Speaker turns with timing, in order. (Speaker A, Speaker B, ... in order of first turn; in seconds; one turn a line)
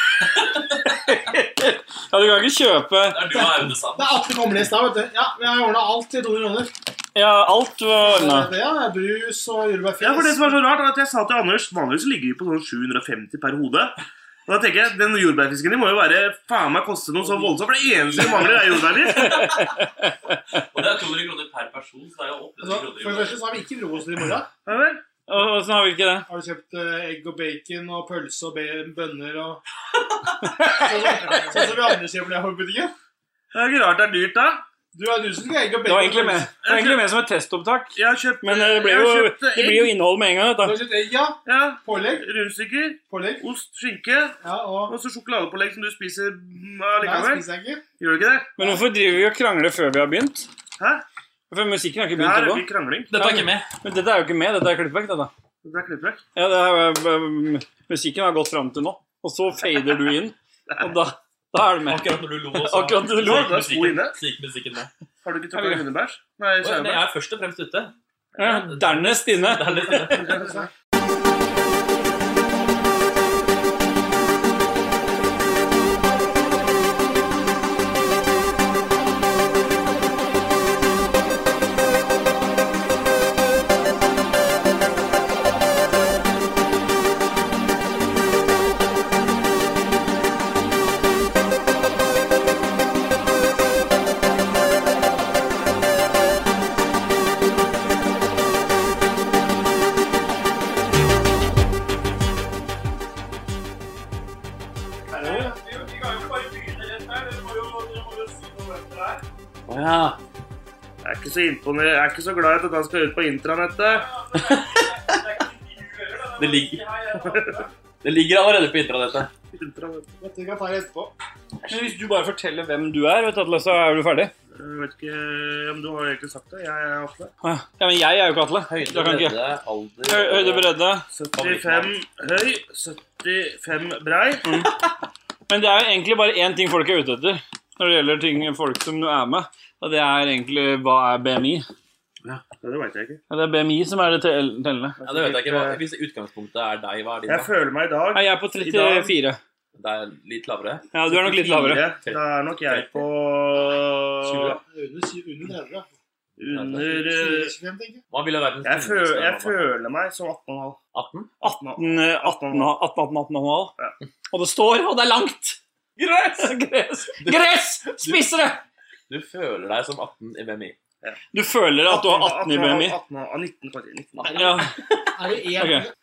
Speaker A: 0.2-3.2
Speaker B: 3.1-4.4
Speaker C: 3.3-6.7
Speaker A: 7.2-8.5
Speaker C: 8.0-10.6
Speaker D: 10.0-13.9
Speaker D: 14.5-19.5
Speaker C: 17.3-18.9
Speaker A: 19.2-20.1
Speaker B: 20.7-23.4
Speaker C: 22.6-24.5
Speaker D: 24.7-25.0
Speaker A: 25.3-26.3
Speaker C: 26.3-29.6
Speaker A: 30.4-31.6
Speaker C: 30.7-32.9
Speaker D: 33.5-34.6
Speaker C: 34.9-36.6
Speaker A: 35.9-40.8
Speaker D: 36.6-37.0
Speaker D: 38.0-39.9
Speaker C: 40.6-42.3
Speaker D: 41.5-44.4
Speaker C: 43.1-43.5
Speaker C: 44.4-44.9
Speaker D: 44.9-47.5
Speaker C: 47.0-47.8
Speaker D: 48.0-48.6
Speaker A: 48.6-50.5
Speaker D: 50.8-51.0
Speaker A: 51.5-55.3
Speaker D: 52.1-53.1
Speaker B: 53.1-53.7
Speaker D: 55.6-56.2
Speaker A: 56.4-62.1
Speaker B: 61.9-64.9
Speaker A: 62.6-63.7
Speaker D: 63.2-64.2
Speaker D: 65.2-67.0
Speaker A: 65.5-65.8
Speaker B: 66.6-67.9
Speaker D: 68.3-68.7
Speaker A: 68.4-70.0
Speaker B: 68.5-70.5
Speaker D: 69.8-70.5
Speaker C: 70.1-70.7
Speaker A: 105.1-109.2
Speaker C: 105.2-105.5
Speaker B: 109.7-110.2
Speaker D: 111.0-114.1
Speaker A: 114.2-117.7
Speaker B: 114.3-115.2
Speaker B: 116.4-116.8
Speaker D: 117.2-117.5
Speaker B: 118.0-119.3
Speaker D: 119.5-120.1
Speaker C: 120.2-121.1
Speaker A: 121.7-124.3
Speaker D: 121.7-122.0
Speaker D: 124.5-127.3
Speaker A: 127.4-129.4
Speaker B: 128.7-130.8
Speaker A: 130.1-131.1
Speaker D: 131.1-134.6
Speaker B: 131.3-132.0
Speaker A: 134.4-134.7
Speaker A: 135.5-141.7
Speaker D: 142.6-143.2
Speaker A: 143.3-145.0
Speaker D: 145.0-145.8
Speaker B: 145.0-147.5
Speaker D: 147.3-149.1
Speaker A: 148.1-149.4
Speaker B: 149.7-150.9
Speaker A: 150.9-151.9
Speaker D: 151.1-154.6
Speaker B: 152.0-153.0
Speaker B: 154.2-154.6
Speaker C: 154.7-155.9
Speaker D: 156.4-157.6
Speaker B: 156.5-157.0
Speaker C: 156.7-158.0
Speaker B: 158.1-159.7
Speaker D: 158.6-160.8
Speaker B: 160.9-161.3
Speaker D: 161.4-162.8
Speaker A: 161.4-163.7
Speaker A: 164.3-168.6
Speaker B: 166.0-166.5
Speaker B: 167.2-168.3
Speaker B: 169.1-170.8
Speaker A: 171.3-173.0
Speaker D: 171.8-174.5
Speaker C: 174.3-174.6
Speaker A: 174.3-174.7
Speaker C: 175.2-175.9
Speaker A: 175.6-175.8